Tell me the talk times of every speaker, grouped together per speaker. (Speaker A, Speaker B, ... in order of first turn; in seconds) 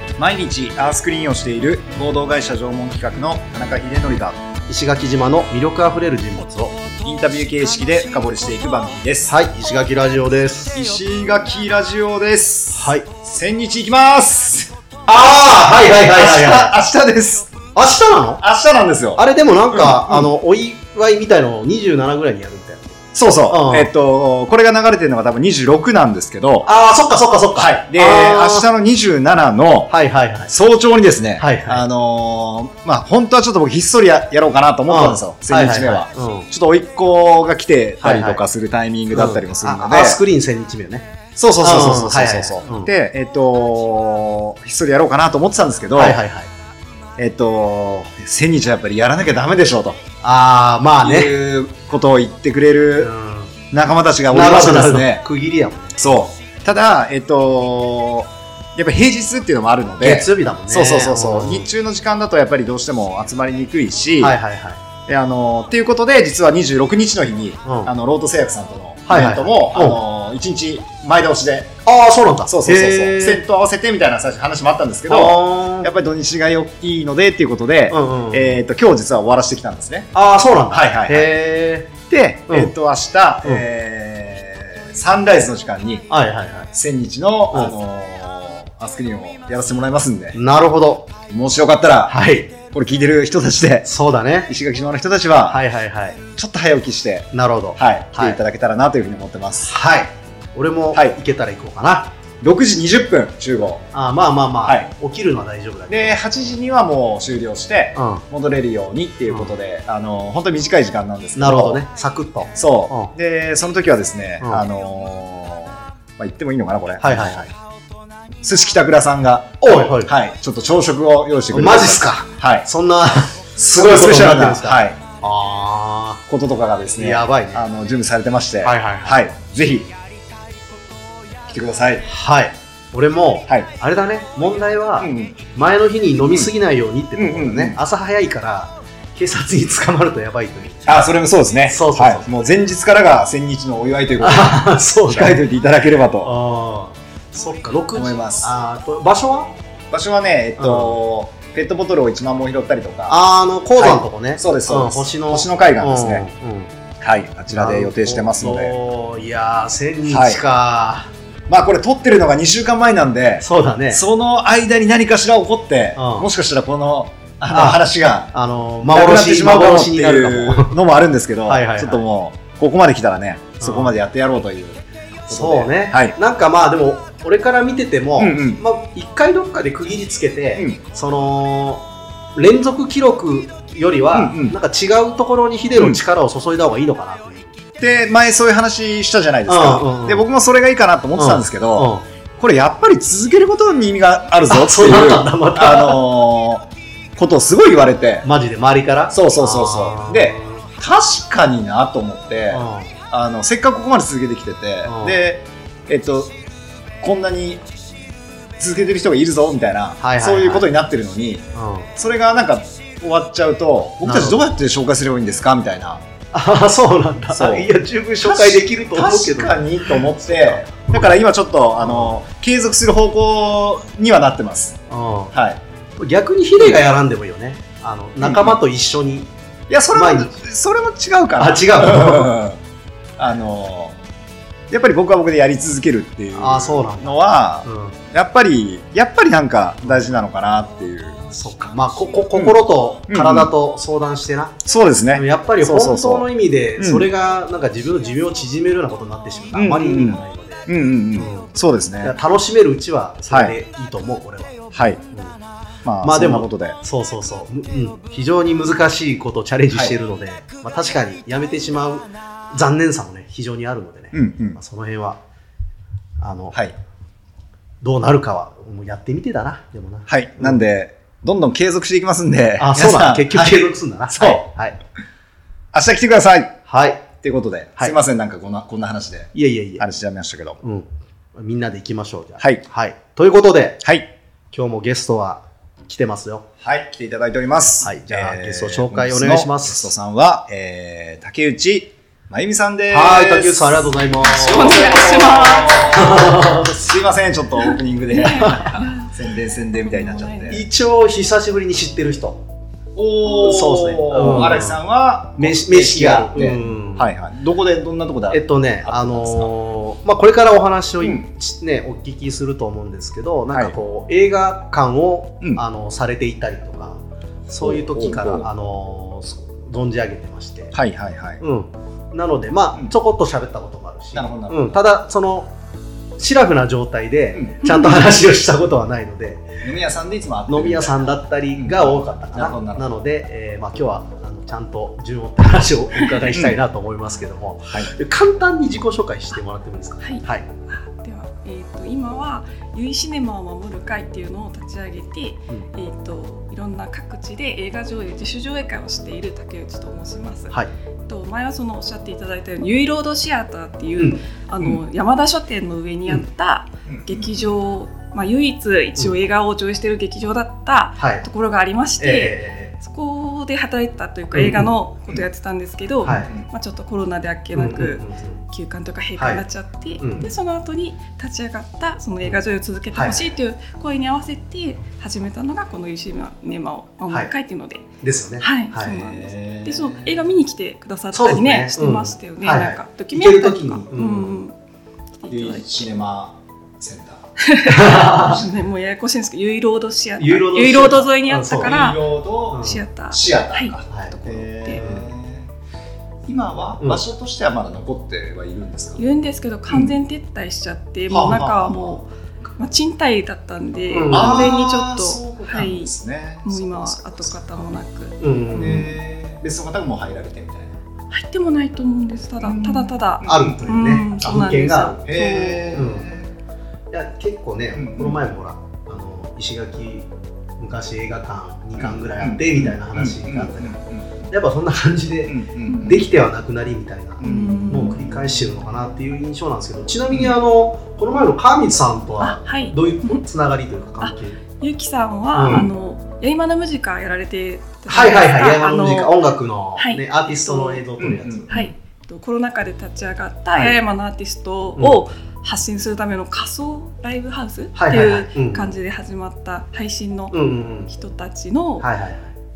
Speaker A: 0.2-4.4, 7.0-9.3, 10.7-14.7, 16.1-17.6, 18.4-20.3, 23.1-26.7, 27.6-29.9, 30.5-40.2, 41.4-46.2, 47.2-50.0, 51.0-53.1, 53.7-55.2, 56.0-64.4, 65.1-71.8, 72.5-80.1, 80.7-81.3, 82.0-86.1, 86.7-90.4, 91.3-93.9, 94.5-95.6, 96.3-99.7, 102.4-103.9, 104.6-104.9, 105.9-111.8, 112.5-117.5, 118.4-122.7, 123.5-125.0, 126.3-129.9, 131.5-132.1, 135.0-135.4, 136.2-136.5, 137.2-137.8, 140.8-146.3, 147.9-148.5, 149.9-153.2, 153.8-156.2, 157.0-158.7, 160.1-160.4, 161.5-168.3, 168.9-176.1, 178.2-178.6, 184.1-184.5, 187.8-198.2, 199.1-206.3, 207.0-207.6, 208.6-211.4, 211.9-216.0, 217.3-217.7, 218.2-224.8, 225.3-225.6, 228.2-228.6, 229.7-232.6, 233.2-234.0, 234.7-241.3, 243.1-243.5, 244.6-247.1, 249.5-252.2, 253.3-253.5, 254.7-255.0, 255.8-256.8, 264.1-264.6, 270.1-274.4, 275.7-276.6, 277.2-280.6, 283.8-284.1, 286.6-300.6, 302.9-309.5, 317.6-318.5, 320.7-321.4, 324.1-324.7, 329.6-332.9, 336.3-336.6, 356.9-357.5, 366.1-366.4, 379.1-380.2, 385.3-387.3, 388.2-388.5, 391.6-395.5, 396.3-399.0, 399.7-399.9, 401.1-402.0, 404.1-407.8, 408.5-410.8, 412.4-413.6, 415.1-416.3, 417.8-418.2, 421.8-424.3, 425.3-426.1, 427.2-428.2, 441.0-441.7
Speaker B: 4.7-6.8, 9.3-10.7, 12.7-13.1, 15.1-16.7, 17.7-18.4, 19.2-23.9, 26.6-28.7, 29.9-30.5, 31.4-31.8, 34.9-36.5, 38.0-38.4, 39.1-41.1, 41.6-42.9, 46.0-46.5, 50.2-51.4, 53.0-53.5, 54.3-56.0, 60.0-61.7, 64.2-64.8, 67.6-67.9, 69.1-70.0, 71.8-73.4, 75.1-75.9, 77.9-78.6, 80.1-82.7, 86.1-86.7, 87.5-87.8, 90.3-91.2, 92.1-92.5, 93.9-94.5, 95.5-96.2, 97.3-98.4, 99.7-102.1, 103.9-106.2, 108.0-108.2, 109.3-109.5, 111.3-113.1, 117.0-117.5, 119.6-120.1, 121.5-126.2, 126.9-127.6, 128.6-129.2, 132.1-140.9, 141.7-142.3, 144.2-145.4, 146.2-149.5, 150.6-151.0, 153.1-156.7, 157.5-161.1, 163.4-164.0, 165.9-166.3, 167.5-167.8, 168.3-170.8, 171.5-172.0, 173.6-174.0, 175.3-187.5, 189.5-190.2, 191.2-192.0, 194.5-196.0, 198.2-200.6, 202.5-202.9, 204.8-205.2, 210.0-210.7, 211.5-211.9, 214.0-214.4, 216.3-221.1, 221.8-222.2, 224.9-225.3, 226.0-229.3, 229.9-230.3, 231.4-232.3, 236.3-238.0, 241.3-244.6, 245.1-255.4, 256.0-265.2, 266.2-266.6, 267.8-270.6, 272.6-274.8, 276.7-277.1, 279.3-279.8, 280.6-283.8, 284.5-286.5, 287.8-289.9, 292.9-296.8, 298.4-298.7, 300.5-302.4, 303.3-304.8, 305.4-307.1, 308.3-320.7, 321.4-325.5, 326.2-329.6, 330.5-340.4, 361.0-361.2, 362.0-362.7, 364.3-364.7, 366.0-366.3, 367.5-368.4, 369.2-369.4, 370.0-370.3, 372.9-373.3, 378.0-379.1, 381.1-384.4, 387.6-388.4, 390.2-391.8, 392.5-392.8, 394.7-395.1, 403.9-404.6, 408.2-408.9, 413.2-415.0, 415.7-416.1, 416.9-420.1, 420.6-423.8, 424.3-434.4, 435.3-435.7, 437.9-441.6, 444.8-445.0, 447.8-448.7, 450.3-450.9, 451.8-452.3
Speaker C: 294.2-296.2, 297.6-299.1, 299.7-300.6, 327.6-328.0, 340.0-377.9, 378.4-384.5, 385.2-385.7, 387.4-392.0, 392.5-394.8, 398.9-405.9, 406.4-408.2, 411.1-415.8, 425.7-426.0, 427.2-428.0, 432.2-433.2, 434.0-439.1, 439.8-440.8, 441.5-451.9